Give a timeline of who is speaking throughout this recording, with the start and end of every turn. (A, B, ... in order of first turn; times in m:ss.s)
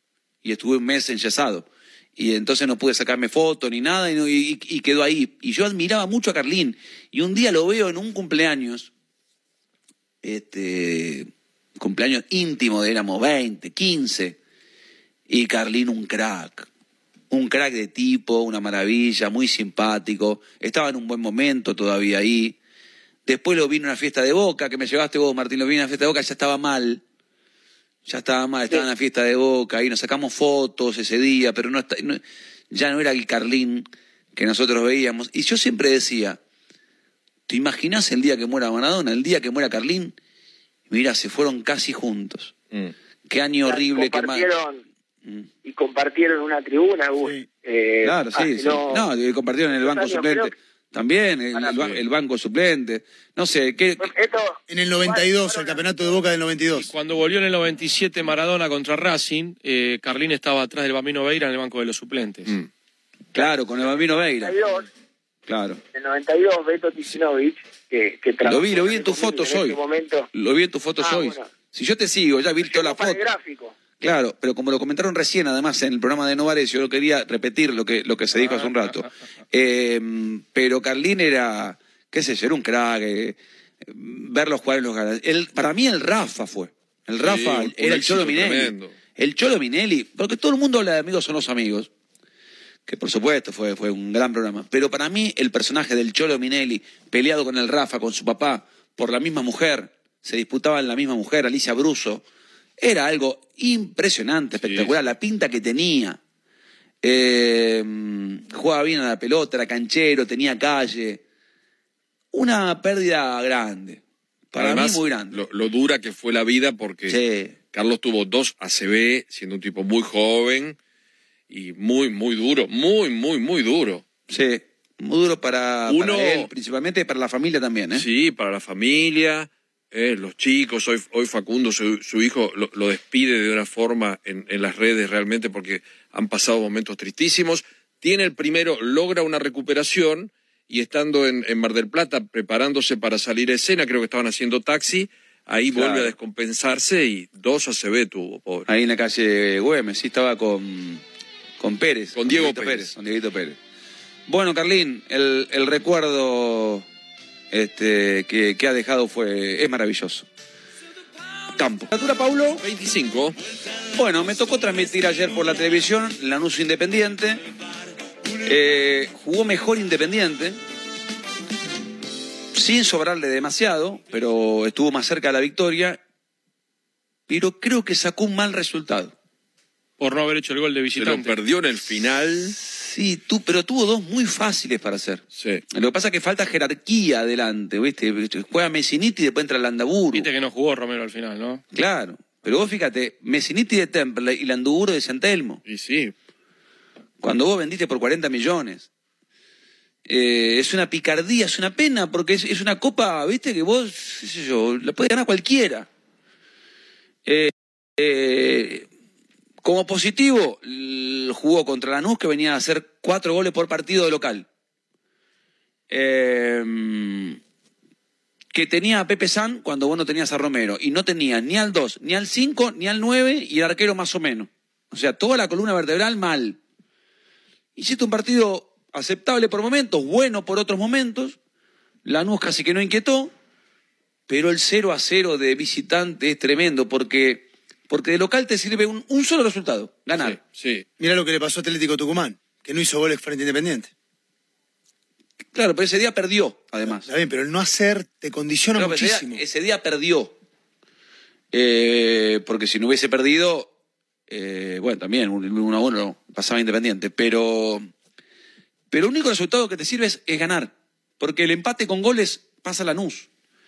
0:00.4-0:08.9 A
0:10.2-0:14.4 A
0:15.3-0:16.7 A
0:17.3-0:22.6 A
0:23.2-0:27.0 A
0:28.0-0:36.4 A
0:37.5-0:40.2 A
0:40.9-0:42.5 A
0:43.3-0:44.5 A
0:43.6-0:44.8 B
0:45.6-0:49.0 B
0:47.2-0:47.5 C
0:48.0-0:54.1 A
0:49.7-0:50.5 B
0:51.7-0:52.0 D
0:54.0-0:56.2 B
0:54.7-0:56.9 C
0:56.8-1:02.5 E
1:03.3-1:04.6 A
1:04.4-1:04.9 B
1:05.5-1:05.8 A
1:05.9-1:10.3 B
1:08.4-1:09.8 A
1:10.3-1:13.2 A
1:11.0-1:11.5 B
1:12.6-1:13.7 B
1:14.0-1:31.9 A
1:27.2-1:28.9 D
1:32.8-1:42.2 A
1:42.8-1:46.2 A
1:44.6-1:44.9 D
1:47.0-1:51.2 A
1:52.3-1:55.4 A
1:54.6-1:57.2 D
1:57.1-1:57.6 A
1:57.7-2:00.8 D
2:01.5-2:04.0 D
2:04.3-2:08.0 A
2:05.9-2:06.5 D
2:07.9-2:28.7 D
2:25.7-2:26.1 A
2:28.7-2:31.0 A
2:31.6-2:33.6 A
2:32.2-2:32.9 D
2:34.3-2:36.8 A
2:37.5-2:40.3 A
2:41.5-2:42.6 A
2:42.6-2:43.4 D
2:43.9-2:47.4 A
2:48.4-2:50.6 A
2:52.5-2:56.0 A
2:57.3-2:59.1 A
3:00.0-3:01.3 E
3:01.0-3:02.6 D
3:02.6-3:10.3 A
3:05.3-3:05.6 D
3:10.1-3:11.6 E
3:11.7-3:15.6 A
3:15.6-3:16.1 D
3:17.2-3:18.9 A
3:20.0-3:25.9 A
3:27.2-3:28.9 A
3:29.6-3:34.5 A
3:35.9-3:37.4 A
3:38.5-3:46.6 A
3:47.8-3:51.4 A
3:52.0-3:53.3 A
3:54.3-4:00.4 A
4:00.1-4:00.8 D
4:01.0-4:03.9 C
4:05.5-4:07.1 A
4:06.9-4:09.4 C
4:08.7-4:10.3 A
4:11.5-4:13.7 A
4:14.3-4:17.9 A
4:18.9-4:23.3 A